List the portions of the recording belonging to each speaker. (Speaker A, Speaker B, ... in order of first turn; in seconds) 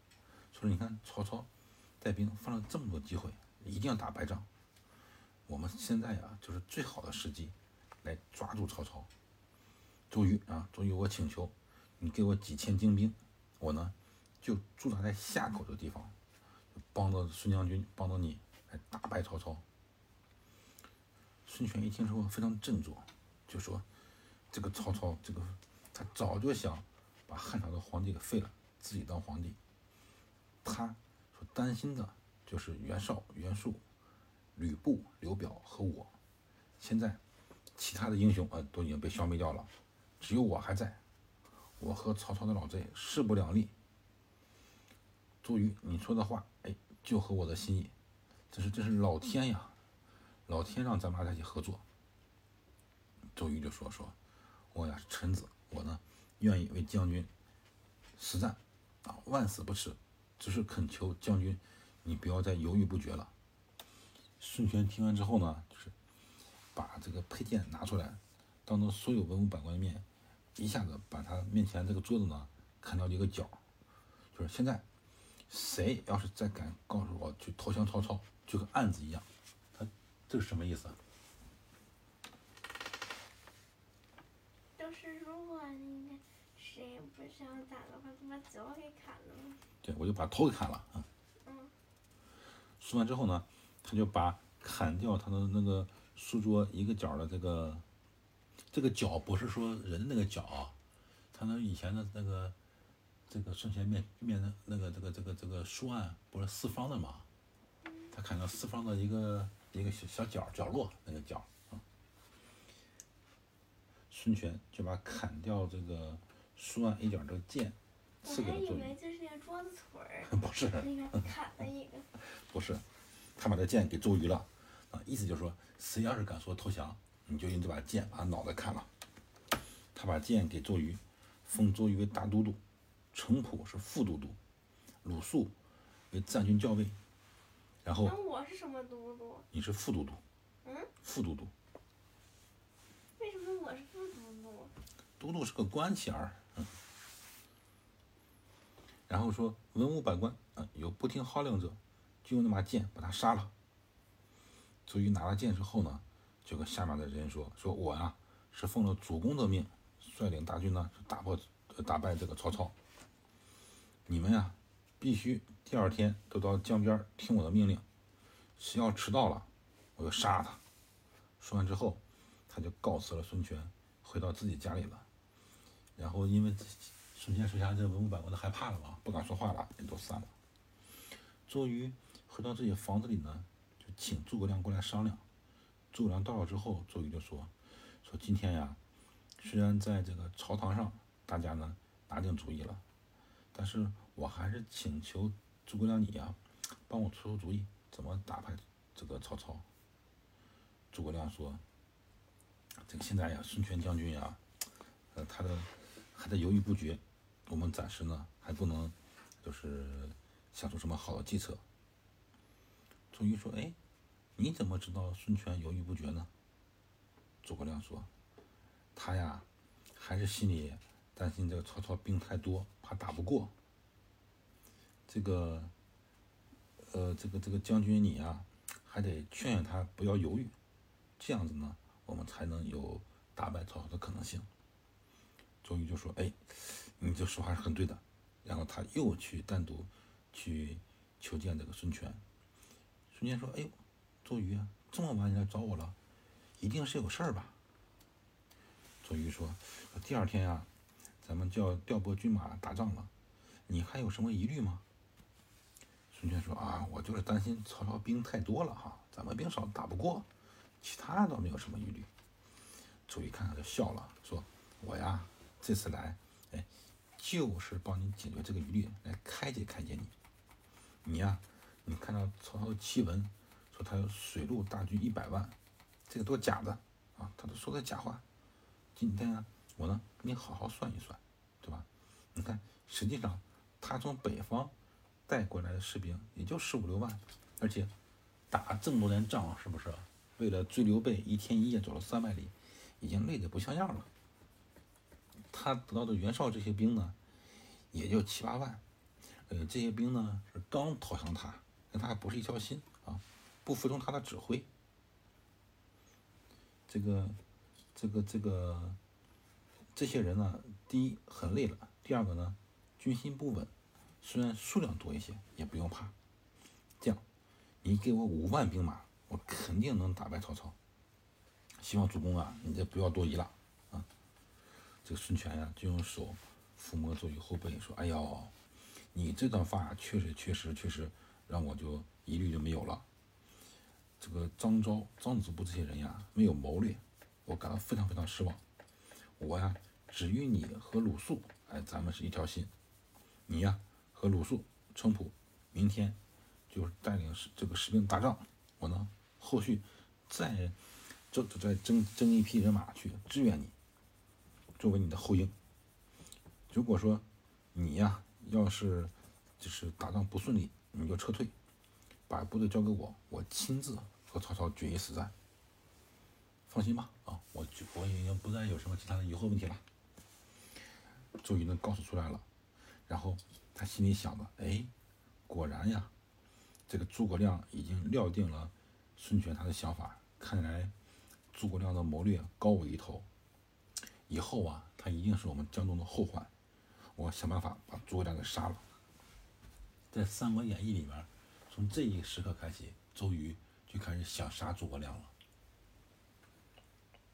Speaker A: 0.5-1.5, 2.0-4.5, 5.5-9.1, 10.1-16.1, 16.8-19.6, 21.4-23.9, 24.5-29.6, 30.6-33.8, 34.5-36.1, 36.8-37.2, 37.8-41.0, 41.8-43.7, 45.4-47.9, 48.5-49.7, 50.5-51.8, 53.3-54.1, 54.7-57.3, 58.2-63.3, 64.4-65.9, 66.7-70.0, 70.5-73.6, 74.3-74.8, 75.5-81.0, 89.8-91.1, 92.8-97.8, 98.7-100.8, 101.3-102.5, 103.3-107.3, 108.1-111.8, 114.1-119.0, 120.2-121.3, 122.1-128.9, 129.9-132.6, 133.1-134.4, 135.0-135.5, 136.1-137.0, 137.8-138.2, 139.5-140.2, 141.0-141.5, 145.2-146.8, 149.1-153.5, 154.8-162.7, 164.1-167.8, 168.6-170.6, 171.4-175.1, 176.0-180.3, 181.4-185.2, 185.9-188.8, 189.4-192.8, 193.5-199.7, 200.9-201.6, 202.8-204.4, 205.1-211.6, 213.1-213.8, 214.3-216.3, 217.4-218.1, 218.9-223.5, 225.1-225.7, 226.8-230.5, 231.2-234.5, 235.6-242.2, 243.1-245.9, 246.6-247.6, 249.0-250.7, 251.2-253.1, 253.7-254.8, 256.1-260.3, 260.8-262.1, 263.1-270.1, 271.0-275.6, 276.1-278.2, 278.9-284.7, 285.3-287.9, 288.5-294.1, 295.5-297.1, 297.9-304.7, 306.9-307.4, 307.9-309.0, 309.9-316.1, 317.8-320.8, 321.7-324.1, 325.0-328.5, 329.1-333.0, 334.2-338.6, 339.4-342.7, 343.5-346.2, 346.7-353.7, 354.8-355.5, 356.7-361.5, 362.3-365.3, 366.7-369.8, 371.4-372.4, 373.1-374.9, 375.5-376.1, 376.9-380.9, 381.5-383.3, 384.3-386.5, 387.1-388.8, 390.1-395.3
Speaker B: 84.8-89.6, 91.4-91.7, 107.8-108.1, 118.2-122.1, 138.0-139.4, 140.6-140.9, 143.2-144.8